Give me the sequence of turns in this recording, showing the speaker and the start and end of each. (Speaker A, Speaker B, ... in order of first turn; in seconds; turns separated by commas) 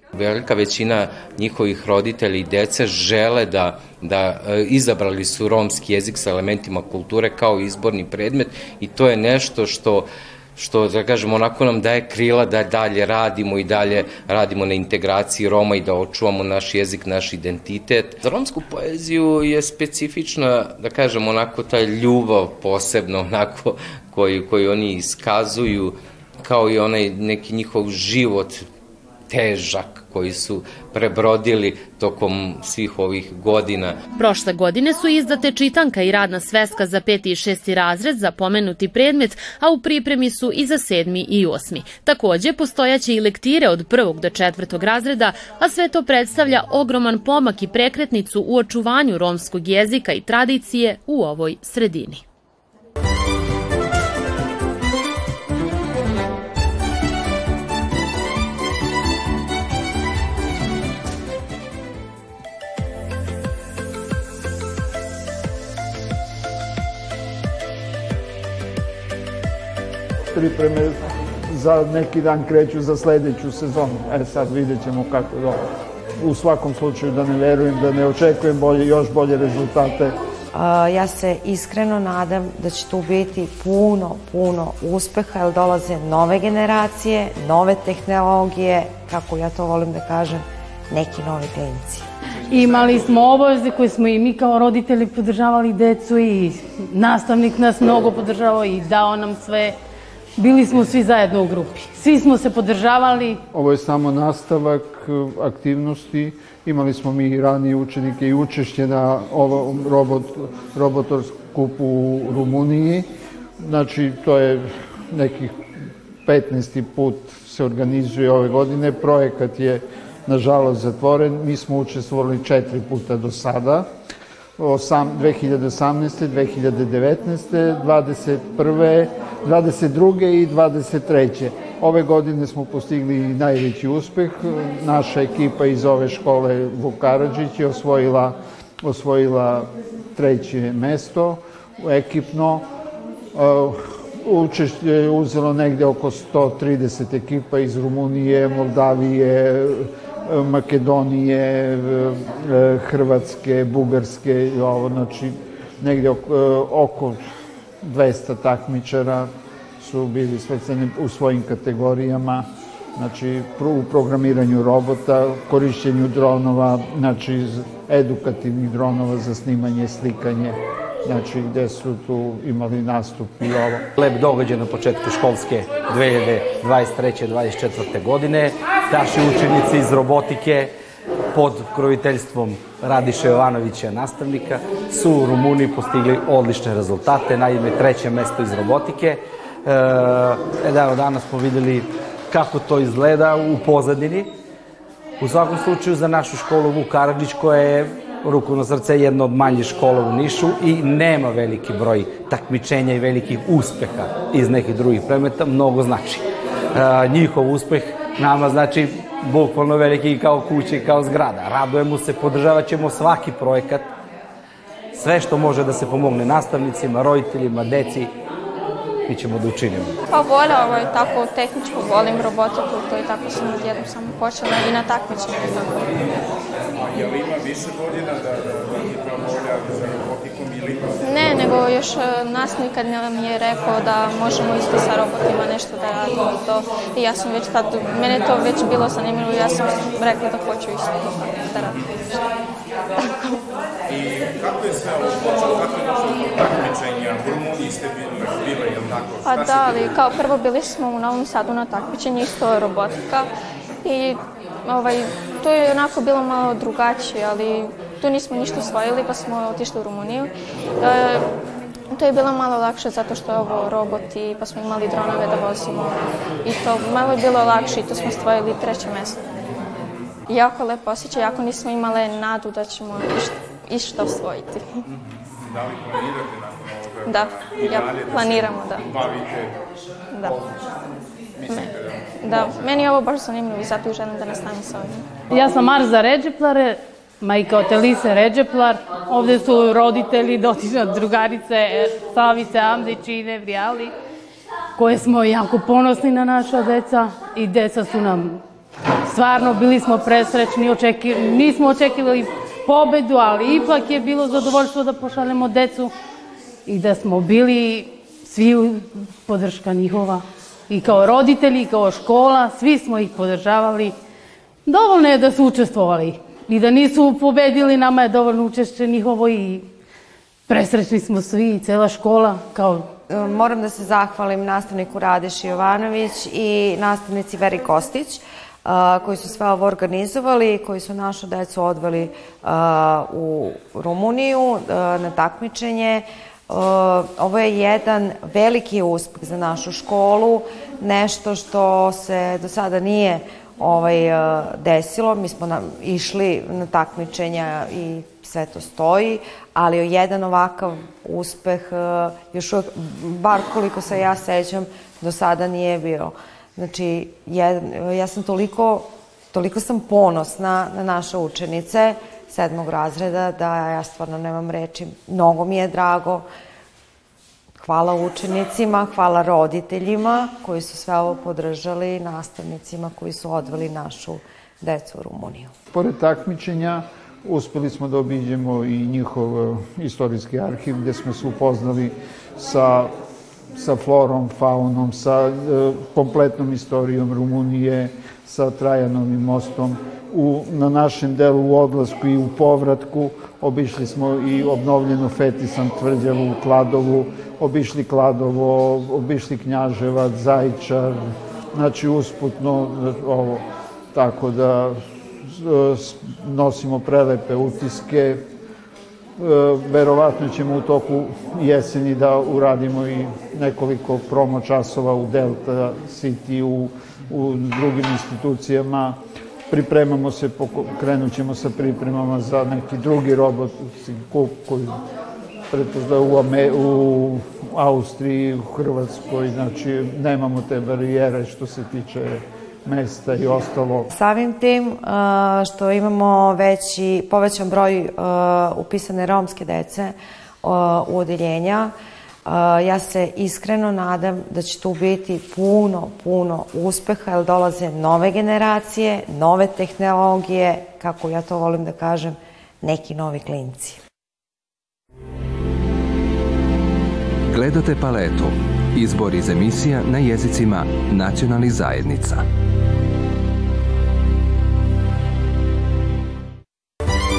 Speaker A: 0.1-28.7, Speaker A: 29.3-34.0, Speaker B: 34.2-52.2, Speaker C: 70.3-75.6, Speaker C: 76.2-80.2, Speaker D: 80.5-92.0, Speaker E: 92.5-93.3, Speaker F: 92.5-99.8, Speaker F: 100.4-103.4, Speaker C: 103.5-113.1, Speaker C: 113.6-115.7, Speaker C: 116.2-123.9, Speaker C: 124.6-142.7, Speaker C: 143.3-157.2, Speaker C: 157.8-173.9, Speaker G: 173.9-180.7, Speaker G: 181.3-194.3, Speaker G: 195.2-213.9, Speaker G: 214.9-218.1, Speaker G: 219.1-219.9, Speaker H: 220.1-225.9, Speaker E: 226.8-231.4, Speaker H: 231.0-242.2, Speaker E: 241.6-241.9, Speaker E: 243.9-250.2, Speaker H: 249.2-253.3, Speaker H: 253.8-261.2, Speaker H: 261.9-269.2, Speaker H: 270.3-274.6, Speaker E: 274.9-279.6, Speaker H: 277.1-278.8, Speaker E: 280.2-280.5, Speaker E: 281.4-282.9, Speaker H: 282.2-285.1, Speaker F: 285.3-293.9, Speaker F: 294.8-298.4, Speaker F: 299.1-305.9, Speaker F: 306.6-313.9, Speaker F: 314.6-319.7, Speaker F: 320.5-322.9, Speaker D: 323.1-366.2, Speaker D: 367.6-375.5, Speaker C: 375.7-382.9, Speaker C: 383.6-408.2, Speaker C: 409.2-424.8, Speaker C: 425.5-433.9, Speaker D: 433.9-441.7, Speaker D: 442.2-453.8, Speaker I: 457.3-462.2